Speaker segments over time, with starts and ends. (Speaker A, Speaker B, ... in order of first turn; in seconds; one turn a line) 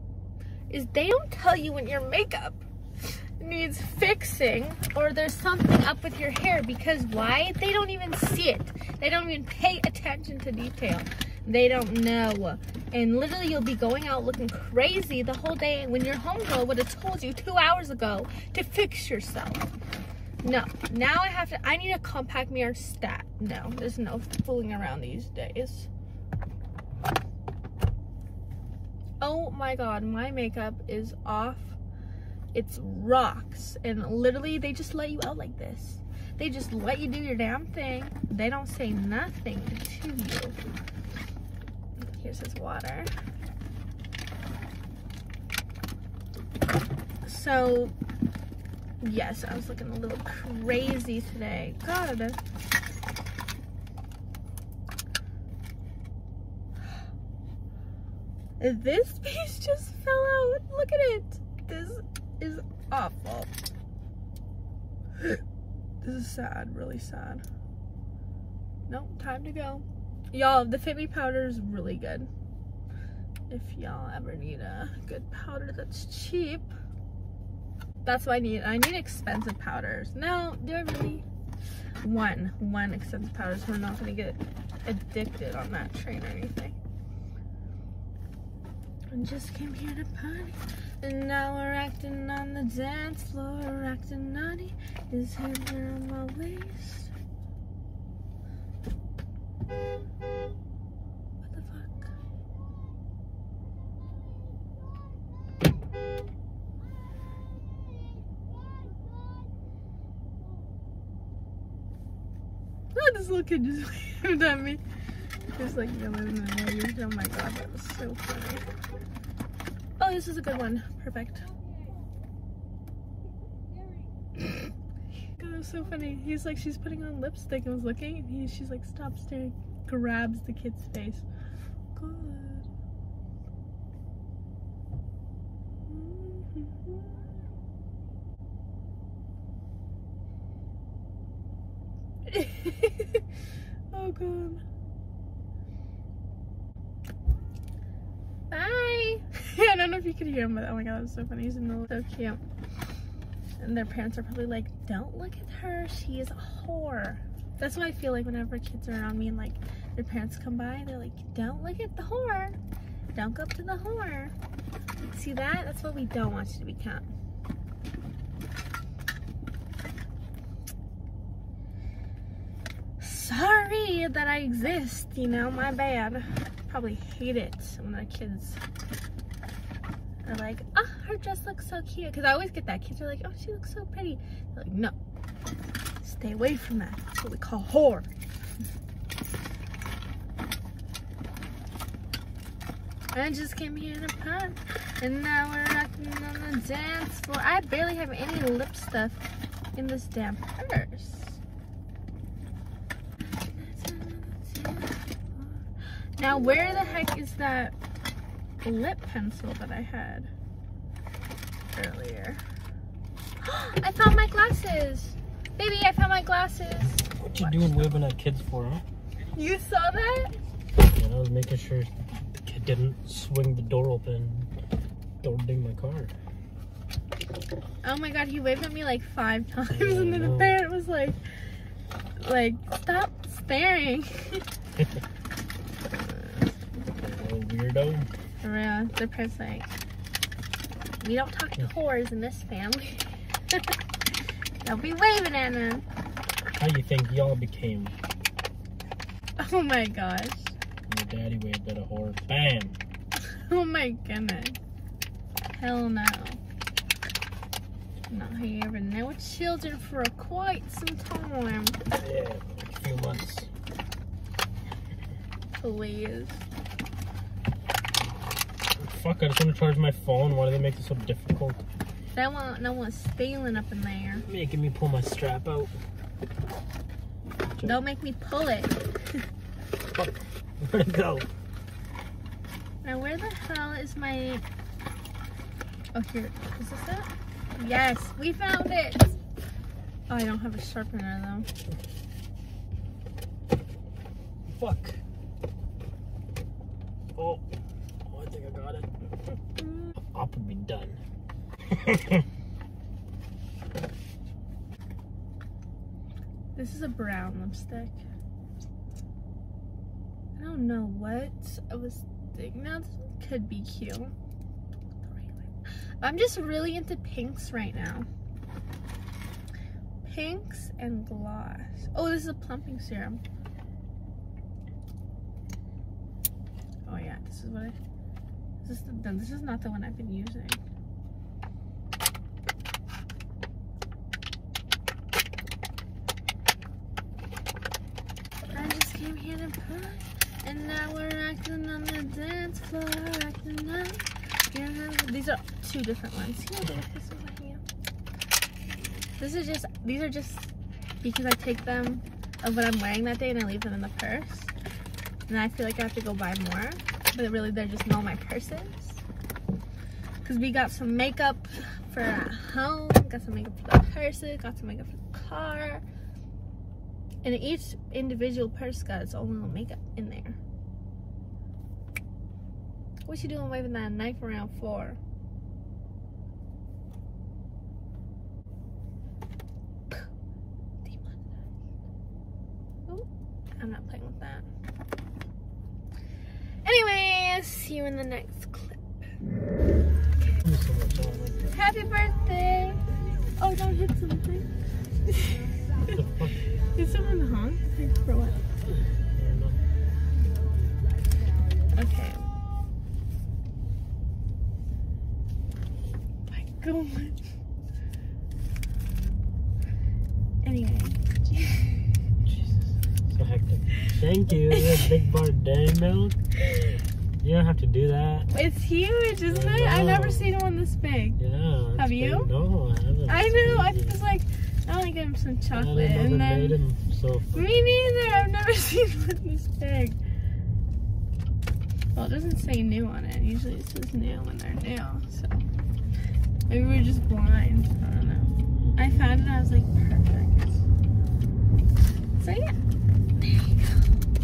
Speaker A: 0.7-19.7
Speaker A: 20.4-25.9
Speaker A: 29.2-31.8
Speaker A: 32.5-40.5
Speaker A: 42.0-43.1
Speaker A: 47.2-47.9
Speaker A: 49.0-52.4
Speaker A: 58.6-63.5
Speaker A: 66.0-67.4
Speaker A: 68.9-72.3
Speaker A: 73.5-76.7
Speaker A: 78.0-81.2
Speaker A: 82.0-86.8
Speaker A: 89.1-97.1
Speaker A: 101.4-102.1
Speaker A: 112.9-114.8
Speaker A: 115.5-118.7
Speaker A: 120.0-121.5
Speaker A: 124.4-124.7
Speaker A: 125.4-131.3
Speaker A: 131.9-132.7
Speaker A: 135.9-137.2
Speaker A: 142.3-143.2
Speaker A: 143.9-144.6
Speaker A: 148.5-152.4
Speaker A: 153.6-162.6
Speaker A: 163.1-164.3
Speaker A: 165.0-167.1
Speaker A: 173.0-178.6
Speaker A: 180.2-184.9
Speaker A: 186.0-188.1
Speaker A: 193.1-201.4
Speaker A: 203.4-205.6
Speaker A: 206.2-207.7
Speaker A: 208.6-210.3
Speaker A: 211.7-212.4
Speaker A: 213.4-217.7
Speaker B: 217.2-218.8
Speaker A: 219.3-220.3
Speaker B: 220.8-224.5
Speaker B: 225.2-226.1
Speaker A: 227.8-231.2
Speaker B: 229.7-230.6
Speaker A: 232.2-234.4
Speaker A: 235.9-236.5
Speaker B: 236.9-238.1
Speaker A: 238.4-239.7
Speaker A: 241.0-243.8
Speaker A: 244.6-245.8
Speaker B: 246.5-247.9
Speaker A: 249.4-250.5
Speaker B: 250.9-252.8
Speaker A: 253.2-254.6
Speaker A: 255.5-256.4
Speaker A: 258.1-261.8
Speaker B: 261.9-263.5
Speaker A: 265.6-266.4
Speaker B: 268.8-271.6
Speaker A: 272.1-274.2
Speaker B: 274.3-275.7
Speaker A: 277.6-279.2
Speaker B: 279.9-281.3
Speaker A: 282.8-284.4
Speaker A: 285.9-289.2
Speaker A: 290.1-291.5
Speaker B: 294.5-295.0
Speaker B: 297.1-297.4
Speaker B: 298.1-298.9
Speaker A: 299.6-299.9
Speaker B: 300.0-301.0
Speaker B: 301.7-302.2
Speaker A: 306.5-308.0
Speaker A: 310.4-314.1
Speaker A: 315.0-315.4
Speaker A: 316.0-318.1
Speaker A: 320.0-323.2
Speaker A: 326.9-327.8
Speaker A: 328.6-330.6
Speaker A: 338.5-347.6
Speaker A: 349.2-350.5
Speaker A: 351.0-354.5
Speaker A: 355.3-359.0
Speaker A: 360.2-365.8
Speaker A: 367.2-370.4
Speaker A: 373.1-375.0
Speaker A: 380.8-381.2
Speaker A: 383.6-384.5
Speaker A: 386.6-389.0
Speaker B: 390.4-391.4
Speaker A: 391.5-392.8
Speaker A: 393.4-394.5
Speaker B: 395.9-396.3
Speaker A: 396.8-398.4
Speaker B: 399.1-399.6
Speaker A: 401.8-402.3
Speaker A: 406.3-407.2
Speaker A: 410.4-411.6
Speaker B: 412.2-416.1
Speaker A: 414.5-414.8
Speaker B: 417.2-418.3
Speaker A: 418.3-421.2
Speaker B: 419.3-420.2
Speaker B: 421.2-424.0
Speaker A: 421.8-422.3
Speaker A: 423.1-426.6
Speaker B: 425.5-427.6
Speaker A: 427.3-430.0
Speaker A: 431.9-435.4
Speaker A: 436.5-440.6
Speaker A: 442.2-442.5
Speaker A: 443.2-443.8